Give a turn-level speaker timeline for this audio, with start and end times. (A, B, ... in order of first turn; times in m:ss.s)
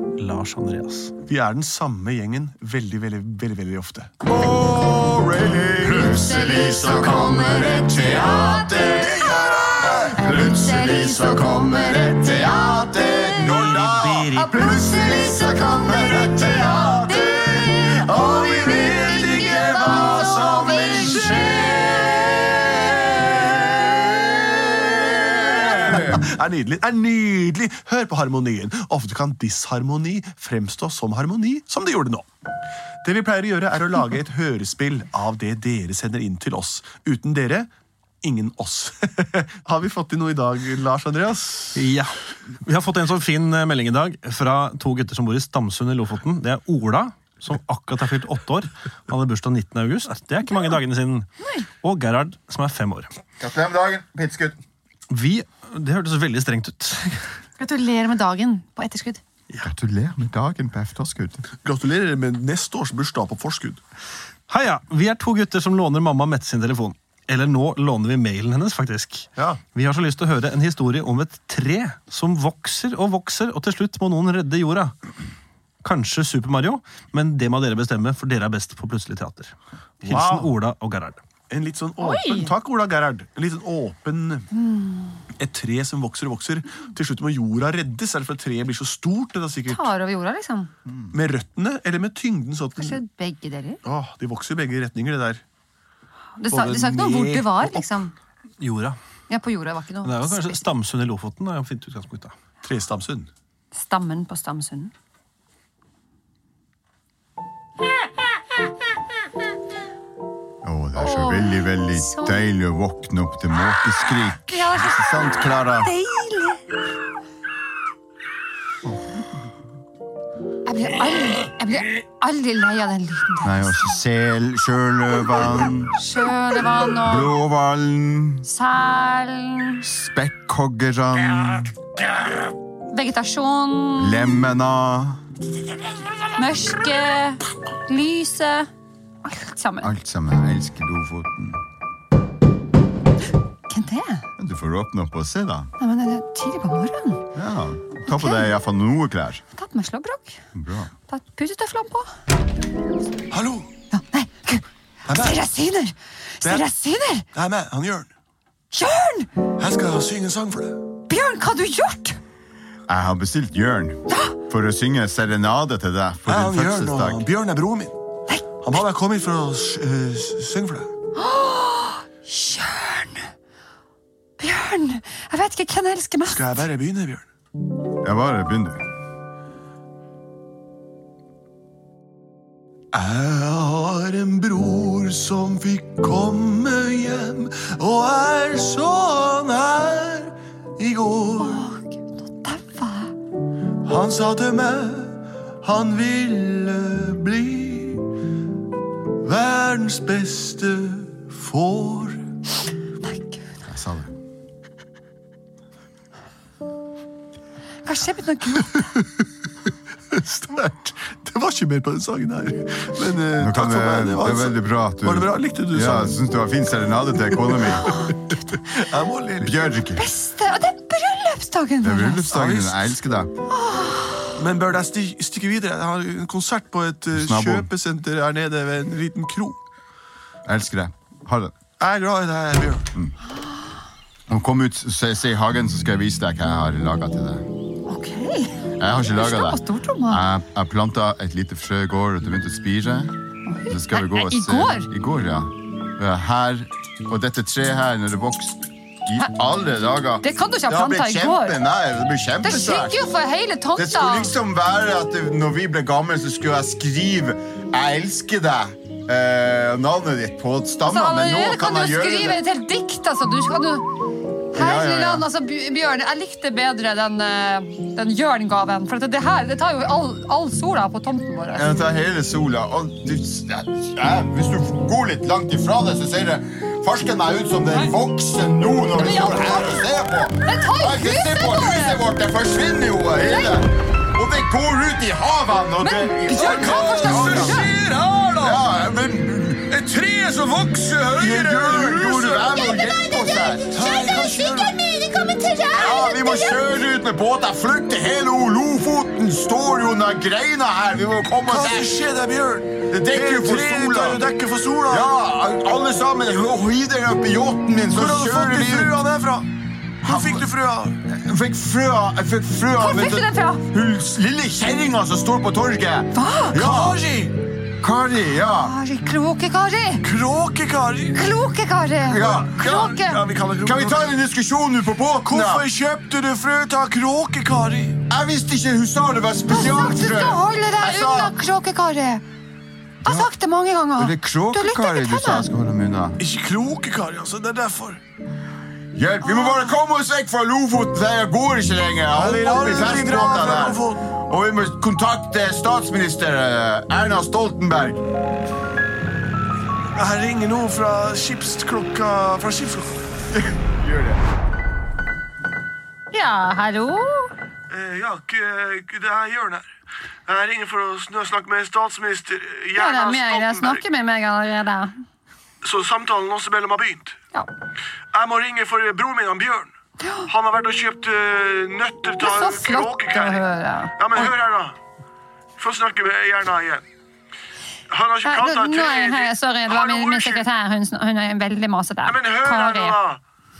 0:00.2-0:01.1 A
0:01.2-0:04.1 B
0:04.2-0:17.8 C
0:05.8-0:13.6 D
0:09.2-0:09.8 B
0:13.4-0:14.6 A
0:14.4-0:21.8 D
0:14.6-0:15.2 B
0:17.9-0:22.4 B
0:19.4-0:26.2 C
0:25.4-0:32.3 B
0:33.0-0:37.7 B
0:38.2-0:41.8 B
0:41.7-0:51.3 A
0:51.4-0:51.7 D
0:51.8-0:53.1 A
0:53.4-0:54.6 C
0:55.1-0:57.3 A
0:57.6-0:59.2 D
0:59.6-1:01.4 C
1:01.5-1:03.8 B
1:04.5-1:14.9 A
1:09.4-1:09.6 B
1:15.8-1:21.2 A
1:20.0-1:20.5 B
1:21.5-1:24.5 B
1:22.0-1:22.5 D
1:24.5-1:25.2 D
1:25.4-1:29.8 B
1:29.6-1:30.7 D
1:31.1-1:33.0 B
1:32.8-1:33.8 D
1:33.8-1:35.4 B
1:36.4-1:38.1 D
1:36.5-1:37.8 B
1:38.6-1:39.0 A
1:39.3-1:40.6 D
1:40.0-1:42.3 A
1:42.6-1:43.3 B
1:43.7-1:44.9 D
1:50.6-1:55.9 C
1:51.0-1:52.4 D
1:54.5-1:56.6 D
2:00.6-2:03.8 D
2:03.4-2:05.9 C
2:05.9-2:07.3 D
2:07.0-2:08.5 C
2:08.4-2:09.8 D
2:09.8-2:11.7 C
2:12.9-2:14.3 D
2:14.0-2:15.2 C
2:16.3-2:18.7 D
2:19.2-2:19.9 D
2:19.8-2:21.6 C
2:23.7-2:24.2 D
2:24.4-2:25.7 C
2:25.8-2:27.2 D
2:27.3-2:29.4 C
2:28.0-2:28.5 D
2:29.5-2:30.4 D
2:30.5-2:30.9 C
2:31.1-2:32.1 D
2:33.3-2:33.7 B
2:33.9-2:37.2 D
2:35.0-2:35.4 B
2:36.4-2:36.7 B
2:37.3-2:38.1 B
2:38.7-2:39.3 D
2:39.6-2:40.8 B
2:41.1-2:42.2 D
2:42.9-2:47.2 C
2:44.1-2:44.3 D
2:46.2-2:47.9 B
2:48.6-2:50.9 B
2:51.2-2:53.3 D
2:54.4-2:56.6 D
2:56.3-2:57.3 B
2:58.0-2:58.8 C
3:02.9-3:11.7 B
3:11.4-3:13.1 D
3:13.8-3:18.1 B
3:19.2-3:22.2 B
3:23.0-3:23.4 D
3:23.7-3:24.1 C
3:27.8-3:28.8 D
3:28.6-3:29.3 B
3:30.1-3:36.2 B
3:33.4-3:38.0 C
3:37.4-3:39.8 B
3:39.4-3:40.0 C
3:39.9-3:42.3 D
3:41.8-3:43.3 C
3:42.3-3:42.9 B
3:43.5-3:44.3 D
3:44.4-3:49.6 B
3:47.1-3:47.7 C
3:50.4-3:51.5 C
3:51.8-3:52.9 B
3:54.3-3:57.4 C
3:57.9-4:00.2 D
3:58.8-4:03.1 C
4:03.5-4:04.9 D
4:03.7-4:13.0 C
4:10.2-4:11.6 D
4:12.4-4:14.3 D
4:13.8-4:22.4 C
4:20.8-4:23.9 D
4:24.5-4:31.7 D
4:24.5-4:25.3 C
4:31.5-4:47.6 C
4:39.0-4:39.8 D
4:40.4-4:42.0 D
4:43.2-4:43.6 D
4:45.8-4:47.7 D
4:46.3-4:48.7 B
4:48.4-4:49.7 C
4:49.7-4:52.6 B
4:51.1-4:53.7 C
4:52.4-4:56.7 D
4:53.7-4:54.8 B
4:55.8-5:02.0 C
5:01.4-5:05.1 B
5:02.9-5:04.2 C
5:04.9-5:08.9 C
5:07.9-5:09.5 B
5:10.0-5:10.5 C
5:10.0-5:11.0 B
5:11.0-5:17.0 C
5:12.8-5:13.6 D
5:16.1-5:16.6 D
5:16.5-5:17.3 B
5:17.8-5:18.7 C
5:18.6-5:20.0 D
5:20.0-5:21.2 B
5:21.1-5:23.2 D
5:22.0-5:22.6 C
5:22.3-5:24.1 B
5:23.6-5:25.6 C
5:25.2-5:28.0 B
5:28.1-5:31.4 C
5:29.5-5:32.2 D
5:33.0-5:35.5 D
5:33.0-5:33.3 C
5:34.0-5:36.2 C
5:36.2-5:38.0 B
5:38.9-5:48.0 C
5:39.2-5:39.7 D
5:42.1-5:44.0 B
5:49.9-5:53.0 B
5:53.3-5:54.2 C
5:56.1-5:57.3 D
5:57.7-5:59.6 B
6:00.2-6:03.8 B
6:02.7-6:05.0 D
6:05.6-6:07.2 B
6:08.1-6:09.7 B
6:10.0-6:10.3 D
6:10.3-6:13.4 B
6:12.2-6:14.3 D
6:14.0-6:14.8 B
6:15.6-6:16.8 B
6:17.9-6:20.5 B
6:18.2-6:23.0 D
6:22.0-6:23.2 B